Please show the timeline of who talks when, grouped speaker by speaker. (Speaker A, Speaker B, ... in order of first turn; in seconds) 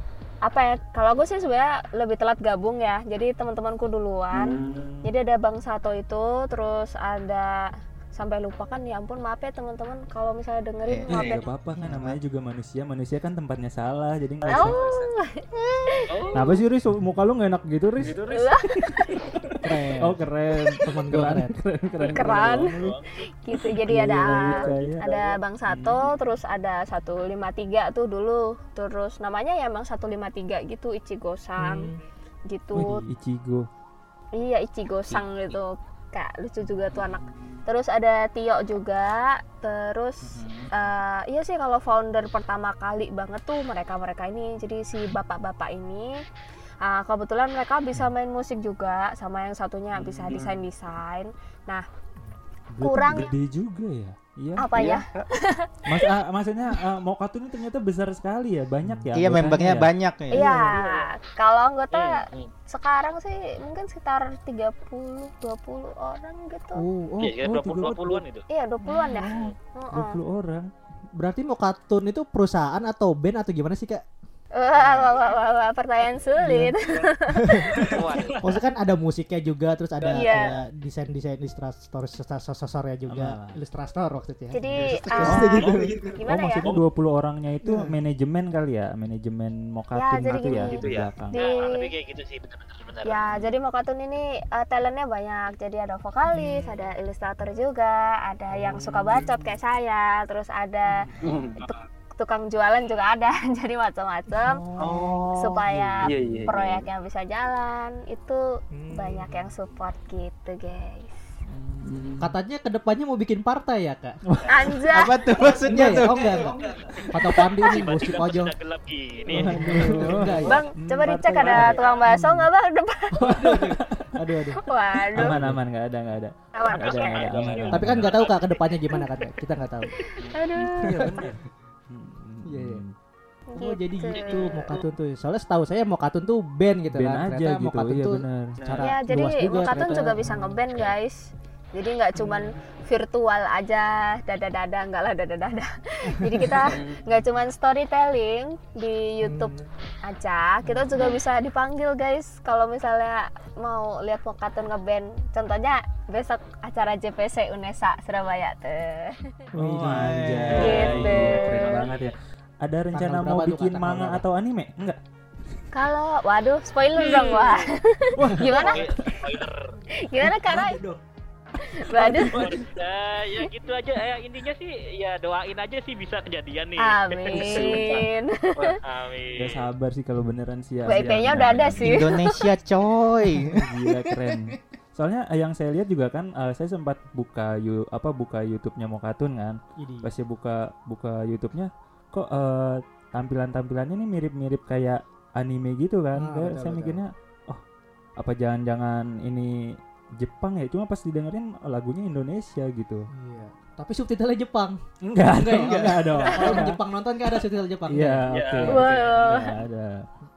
Speaker A: 0.4-11.5, 14.5-16.5, 18.3-19.2, 22.1-22.8, 23.4-31.9, 32.5-33.0, 34.4-46.2, 46.8-51.8, 52.8-53.3, 54.6-55.9, 60.3-66.8, 68.5-70.2, 74.5-77.8, 80.1-80.6, 84.5-86.7, 89.9-90.8, 91.3-91.9, 93.0-101.0, 101.6-104.6, 105.3-108.4, 108.9-111.1, 114.5-115.1, 120.4-123.4, 124.6-125.4, 126.5-127.7, 130.0-131.3, 133.5-134.5, 138.8-159.3, 160.6-161.9, 165.7-168.8, 170.0-170.8, 171.6-172.4, 176.8-178.7, 180.8-182.4, 208.7-209.5
Speaker B: 4.3-5.0, 11.1-11.4, 14.4-15.1, 24.3-25.2, 85.7-86.2, 90.7-91.1, 101.2-101.7, 104.8-106.9, 115.4-116.8, 138.6-138.9, 146.7-147.0, 177.3-178.0
Speaker C: 10.9-12.2, 40.2-40.7, 59.1-60.6, 114.9-116.4, 159.8-160.9, 181.8-184.4
Speaker D: 11.1-14.8, 16.3-18.2, 18.9-23.0, 23.6-25.1, 25.7-26.1, 32.7-33.7, 49.9-50.6, 52.7-54.8, 55.9-59.9, 67.4-68.2, 69.0-70.7, 83.1-83.4, 85.2-91.4, 98.6-99.3, 100.9-101.3, 104.4-106.5, 111.5-112.3, 114.3-114.8, 119.3-122.4, 123.3-124.2, 125.1-128.2, 130.2-132.9, 136.9-138.8, 159.5-165.0, 168.2-169.2, 170.4-171.0, 171.9-172.5, 179.3-182.1, 183.5-197.6, 198.2-203.1, 205.0-206.8, 207.9-210.1
Speaker E: 16.1-16.5, 18.0-18.5, 22.4-23.1, 61.9-62.5, 67.2-68.4, 77.8-78.4, 91.3-93.5, 117.6-119.6, 126.7-128.6, 134.1-134.7, 166.9-167.7, 168.4-169.7, 172.3-178.0, 178.8-179.7, 208.3-209.1
Speaker F: 19.6-21.5, 31.6-32.0, 58.8-59.1, 66.7-67.3, 68.8-69.1, 71.1-74.1, 76.4-76.8, 77.3-86.1, 87.6-87.9, 108.7-109.5, 112.2-114.2, 115.6-118.5, 119.3-120.6, 123.2-124.6, 125.1-125.6, 127.7-129.9, 130.8-131.2, 132.4-132.8, 133.5-140.6, 142.2-142.5, 149.2-149.7, 150.6-150.9, 159.5-161.1, 162.9-164.2, 189.8-190.1, 196.1-197.0, 203.1-208.2